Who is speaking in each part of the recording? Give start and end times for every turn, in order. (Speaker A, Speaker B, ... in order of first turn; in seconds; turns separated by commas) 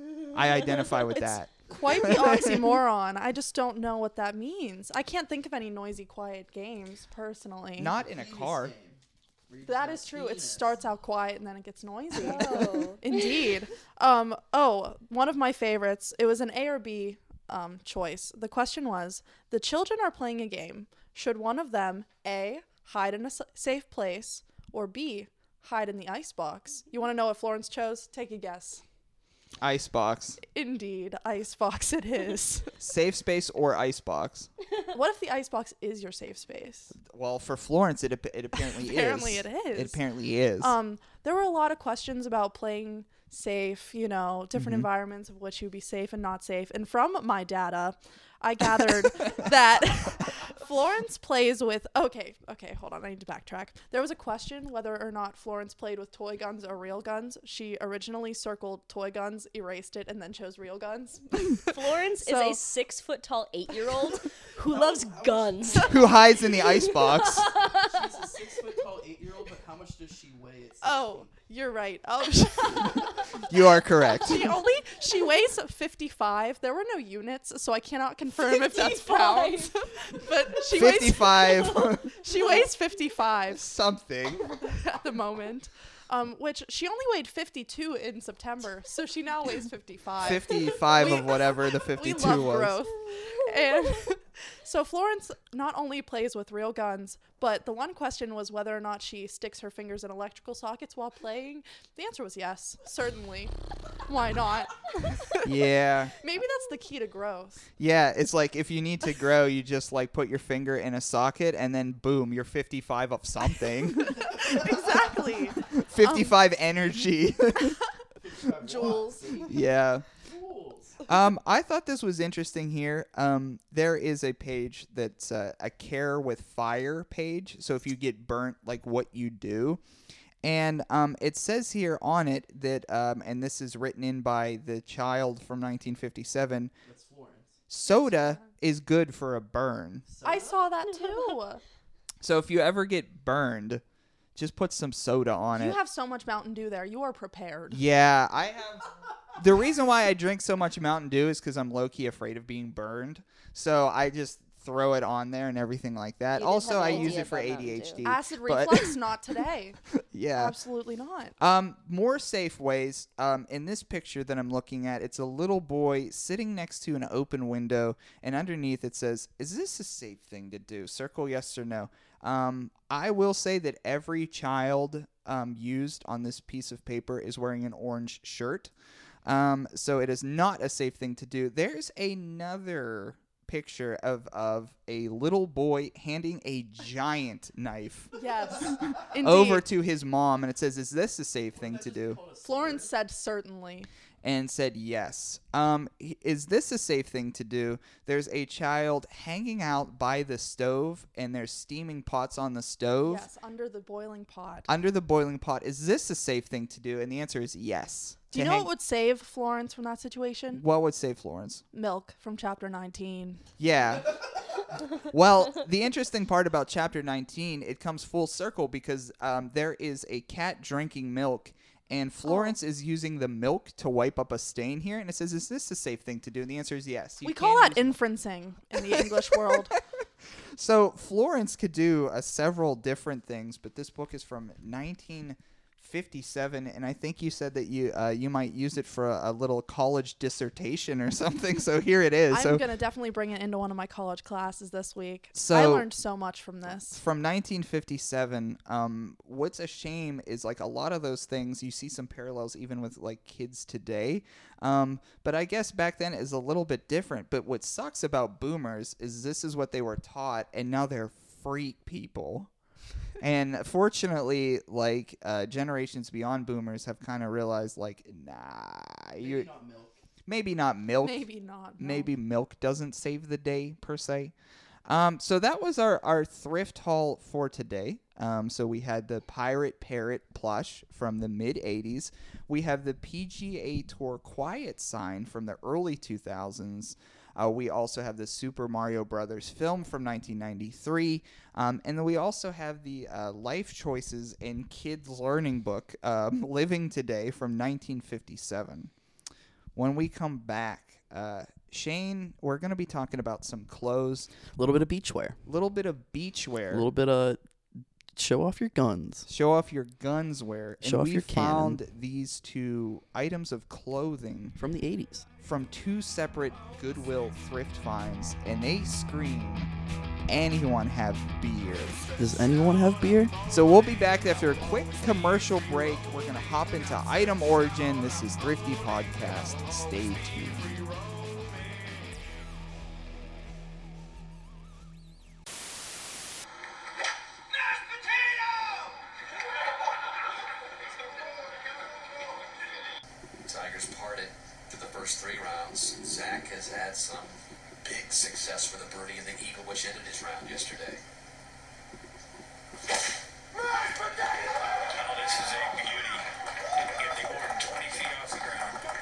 Speaker A: 0.3-2.8, Speaker B: 1.7-7.9, Speaker A: 7.8-8.7, Speaker C: 8.0-10.7, Speaker B: 9.7-28.8, Speaker D: 12.2-13.4, Speaker A: 29.6-30.4, Speaker B: 30.4-32.7, Speaker A: 32.8-34.5, Speaker B: 34.9-36.9, Speaker A: 37.0-40.7, Speaker B: 38.6-40.0, Speaker B: 40.6-62.6, Speaker A: 44.5-44.9, Speaker D: 61.6-65.9, Speaker C: 64.7-65.9, Speaker B: 65.8-66.1, Speaker A: 65.9-67.5, Speaker D: 66.5-68.0, Speaker C: 67.8-71.3, Speaker B: 70.8-73.4, Speaker A: 73.5-74.5, Speaker B: 74.1-83.6, Speaker D: 78.4-79.7, Speaker A: 80.7-82.2, Speaker A: 83.5-84.6, Speaker B: 84.6-103.5, Speaker A: 90.2-92.8, Speaker B: 104.1-105.5, Speaker A: 105.4-106.2, Speaker B: 106.2-107.7, Speaker A: 107.8-114.8, Speaker B: 114.0-116.4, Speaker A: 115.7-117.8, Speaker C: 118.2-119.6, Speaker B: 118.6-119.5, Speaker A: 119.5-120.0, Speaker C: 120.2-121.0, Speaker A: 121.1-129.8, Speaker A: 130.4-136.7, Speaker C: 136.8-137.6, Speaker A: 137.7-140.1, Speaker B: 138.1-138.4, Speaker C: 140.1-140.6, Speaker B: 140.2-141.6, Speaker D: 140.8-141.4, Speaker A: 142.2-143.8, Speaker A: 144.4-145.8, Speaker B: 145.5-147.8, Speaker A: 147.7-158.9, Speaker D: 156.4-158.0, Speaker B: 156.8-157.2, Speaker B: 158.0-159.8, Speaker A: 160.1-160.6, Speaker B: 160.3-161.3, Speaker A: 161.4-178.7, Speaker A: 179.2-192.2, Speaker B: 188.1-189.6, Speaker C: 191.5-192.9, Speaker B: 192.4-193.9, Speaker A: 194.2-203.3, Speaker B: 203.0-204.7, Speaker A: 204.7-208.7, Speaker B: 208.3-210.6, Speaker A: 210.5-211.6, Speaker B: 211.7-213.4, Speaker A: 213.6-214.2, Speaker A: 214.9-228.0, Speaker B: 222.2-222.5, Speaker B: 227.2-229.8, Speaker A: 228.9-229.6, Speaker A: 230.6-242.6, Speaker B: 242.3-247.0, Speaker A: 245.3-245.9, Speaker A: 246.9-262.5, Speaker A: 263.2-269.5, Speaker C: 269.2-270.0, Speaker A: 270.2-271.2, Speaker B: 271.0-272.1, Speaker A: 271.8-274.3, Speaker A: 274.9-298.9, Speaker A: 299.8-304.3, Speaker C: 304.5-305.4, Speaker A: 305.4-306.9, Speaker C: 306.7-307.4, Speaker C: 308.1-309.3, Speaker A: 309.3-314.6, Speaker C: 310.8-311.8, Speaker C: 314.6-315.3, Speaker A: 315.4-319.7, Speaker A: 320.3-322.1, Speaker C: 322.2-323.4, Speaker E: 322.4-322.7, Speaker A: 323.5-330.7, Speaker C: 330.3-330.6, Speaker E: 330.5-332.1, Speaker E: 343.4-351.0, Speaker E: 354.8-358.8